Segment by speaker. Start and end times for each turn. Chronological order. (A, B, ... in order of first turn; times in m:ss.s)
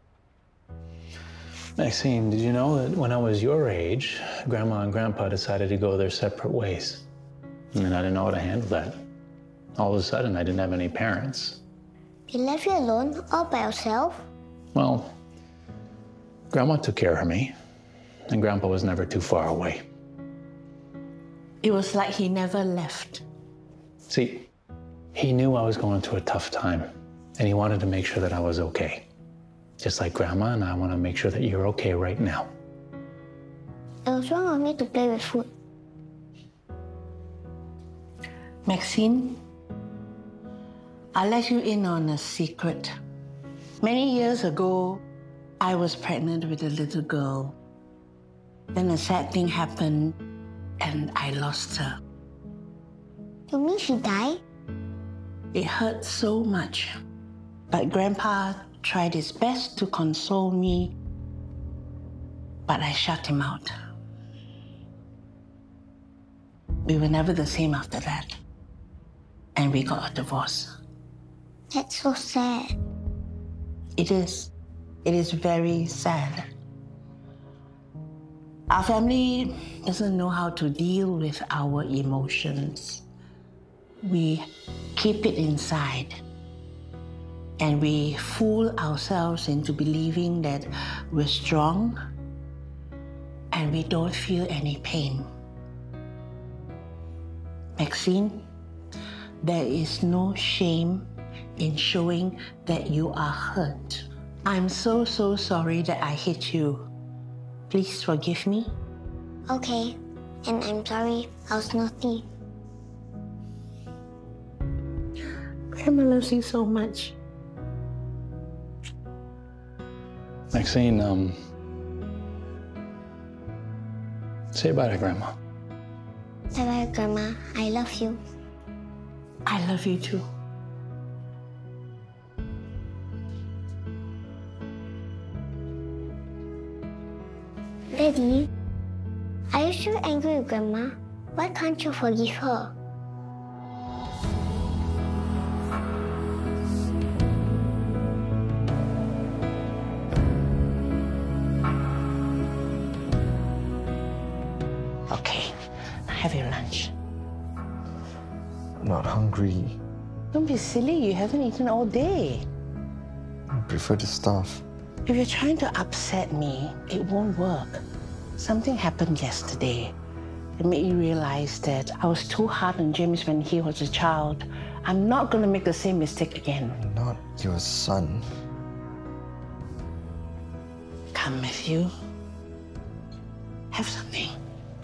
0:01.8-0:07.0 A
0:07.7-0:09.0 A
0:09.8-0:11.6 A
0:12.3-0:14.3 B
0:14.7-0:15.1 A
0:16.5-0:17.6 A
0:18.3-0:19.8 A
0:21.6-0:23.2 C
0:24.1-0:24.5 A
0:25.1-0:29.1 A
0:29.8-0:32.5 A
0:34.0-0:35.5 B
0:38.6-0:39.4 C
0:41.1-0:42.9 C
0:43.8-0:45.0 C
0:45.6-0:47.6 C
0:48.7-0:50.2 C
0:50.8-0:52.0 C
0:53.5-0:54.4 B
0:55.5-0:56.9 C
0:57.7-1:00.9 C
1:02.7-1:03.7 C
1:06.8-1:08.4 C
1:09.6-1:10.7 C
1:11.7-1:12.7 B
1:14.0-1:14.5 C
1:15.0-1:16.5 C
1:18.7-1:23.0 C
1:24.0-1:26.2 C
1:27.6-1:32.0 C
1:33.5-1:35.3 C
1:37.8-1:38.5 C
1:39.4-1:46.9 C
1:47.7-1:48.8 C
1:49.5-1:52.3 B
1:55.7-1:57.2 C
2:00.5-2:01.4 A
2:04.5-2:05.3 A
2:06.5-2:08.2 B
2:09.4-2:10.2 C
2:17.9-2:18.5 B
2:19.5-2:22.7 B
2:35.1-2:36.9 C
2:38.8-2:39.8 D
2:40.3-2:42.4 C
2:43.5-2:44.6 D
2:45.0-2:47.8 C
2:48.4-2:49.9 C
2:50.6-2:56.8 C
2:56.8-2:58.3 D
3:01.1-3:01.9 C
3:03.7-3:04.4 C